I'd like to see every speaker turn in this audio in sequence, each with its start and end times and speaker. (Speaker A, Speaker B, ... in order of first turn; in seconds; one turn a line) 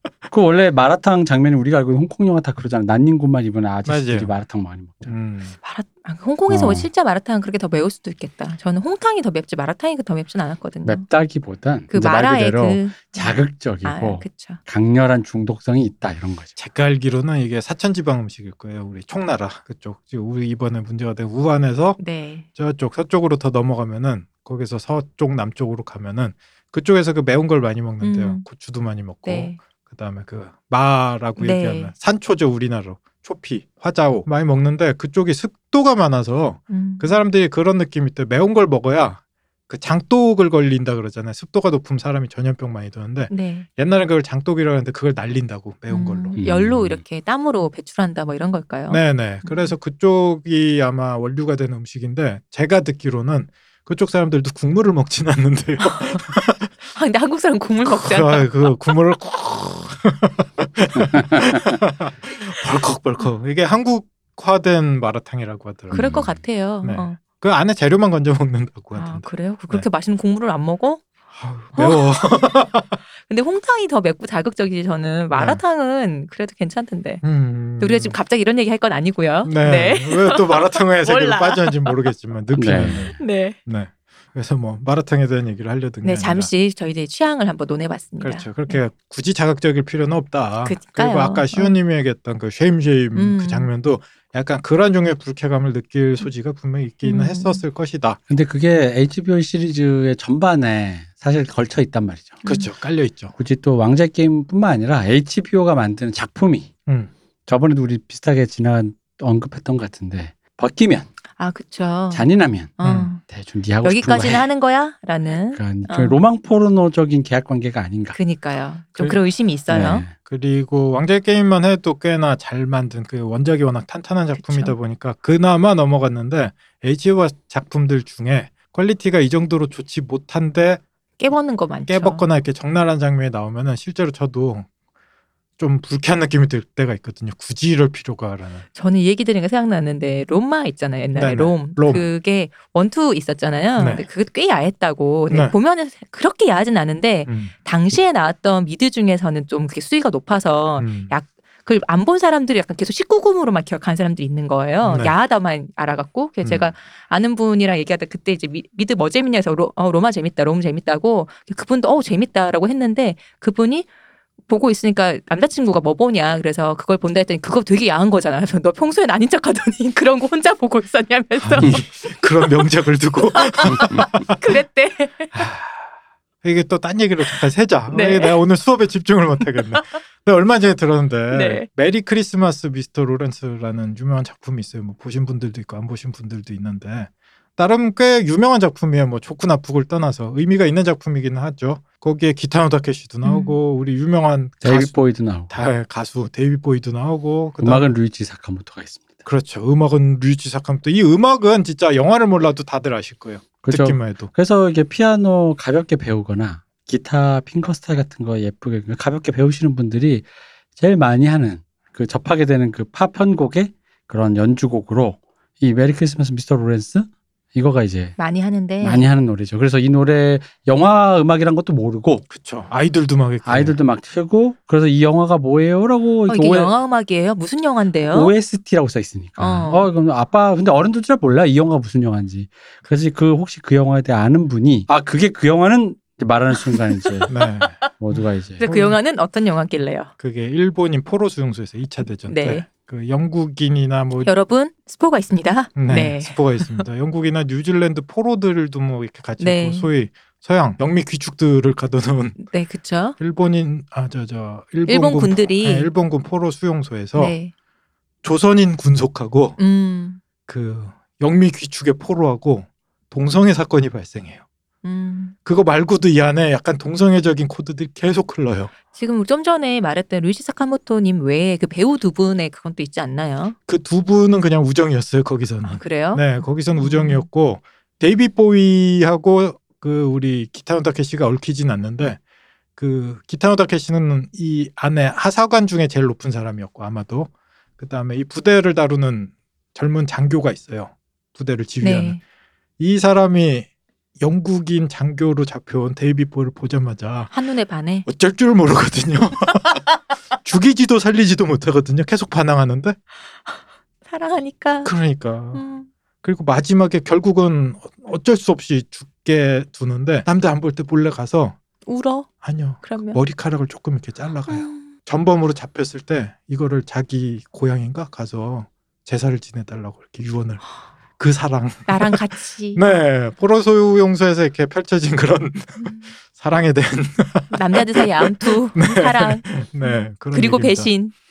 Speaker A: 0.3-5.1
Speaker B: 3.9-4.3
Speaker B: 5.1-5.6
Speaker C: 5.6-11.1
Speaker A: 6.5-6.9
Speaker A: 10.8-16.6
Speaker C: 11.9-14.6
Speaker B: 16.6-22.0
Speaker C: 22.0-22.5
Speaker B: 22.6-46.4
Speaker C: 28.0-28.4
Speaker C: 29.2-29.6
Speaker C: 31.4-31.9
Speaker C: 36.7-37.2
Speaker C: 43.3-43.7
Speaker C: 45.9-49.7
Speaker A: 46.4-47.0
Speaker B: 48.9-56.7
Speaker C: 55.8-56.2
Speaker C: 56.9-58.5
Speaker B: 57.9-66.1
Speaker A: 65.9-66.4
Speaker C: 65.9-67.2
Speaker B: 66.8-69.9
Speaker C: 68.9-71.0
Speaker B: 71.3-73.0
Speaker C: 71.8-72.2
Speaker C: 73.2-77.2
Speaker B: 75.3-75.6
Speaker B: 77.2-78.2
Speaker C: 77.8-82.0
Speaker B: 79.4-86.5
Speaker A: 82.6-83.2
Speaker C: 83.2-83.6
Speaker C: 86.0-88.8
Speaker B: 88.2-98.2
Speaker C: 90.6-91.8
Speaker C: 93.2-93.7
Speaker C: 97.0-97.6
Speaker A: 98.3-102.4
Speaker B: 102.4-103.3
Speaker A: 103.4-106.7
Speaker A: 107.5-111.1
Speaker C: 111.4-113.2
Speaker A: 112.1-114.5
Speaker B: 112.8-113.1
Speaker C: 113.8-116.2
Speaker A: 115.5-118.2
Speaker C: 118.2-120.1
Speaker A: 119.7-120.1
Speaker B: 120.2-130.8
Speaker C: 124.4-124.8
Speaker C: 131.2-132.2
Speaker B: 131.9-134.7
Speaker B: 135.6-138.7
Speaker C: 138.7-163.9
Speaker B: 141.2-142.1
Speaker B: 143.8-144.1
Speaker B: 145.3-145.6
Speaker B: 147.3-147.5
Speaker B: 150.8-151.1
Speaker B: 154.8-155.1
Speaker B: 156.4-156.7
Speaker C: 164.5-172.2
Speaker B: 171.4-174.4
Speaker C: 173.3-175.3
Speaker A: 173.8-174.0
Speaker B: 175.3-175.9
Speaker B: 176.4-197.9
Speaker C: 177.9-178.4
Speaker C: 179.6-179.8
Speaker C: 181.3-181.7
Speaker C: 193.2-193.6
Speaker A: 194.6-195.5
Speaker A: 197.6-199.2
Speaker B: 199.3-204.3
Speaker A: 203.6-218.2
Speaker C: 218.2-219.1
Speaker A: 218.8-222.2
Speaker B: 222.3-223.8
Speaker A: 223.4-226.7
Speaker C: 226.3-228.3
Speaker A: 228.1-237.3
Speaker C: 229.4-229.9
Speaker C: 236.5-237.9
Speaker B: 237.3-239.0
Speaker A: 238.0-238.7
Speaker C: 238.6-240.1
Speaker B: 240.2-244.3
Speaker C: 242.3-242.7
Speaker C: 244.2-246.8
Speaker B: 245.8-252.4
Speaker C: 249.4-249.9
Speaker C: 252.4-253.2
Speaker B: 253.2-257.4
Speaker C: 254.9-255.9
Speaker C: 257.1-257.5
Speaker B: 258.2-259.6
Speaker C: 259.6-260.2
Speaker B: 260.5-264.4
Speaker C: 264.8-265.4
Speaker B: 265.4-268.7
Speaker C: 268.9-273.6
Speaker B: 273.7-282.2
Speaker C: 275.6-277.3
Speaker B: 282.8-292.2
Speaker C: 291.8-292.2
Speaker B: 292.8-293.7
Speaker B: 294.2-297.3
Speaker C: 297.3-298.1
Speaker B: 298.1-299.8
Speaker B: 300.4-303.0
Speaker C: 303.5-304.9
Speaker B: 304.9-305.6
Speaker C: 305.5-305.9
Speaker B: 306.2-311.6
Speaker C: 311.9-312.3
Speaker B: 312.4-322.2
Speaker C: 312.8-313.2
Speaker C: 314.5-314.9
Speaker C: 321.9-322.9
Speaker B: 322.8-330.9
Speaker C: 327.5-331.1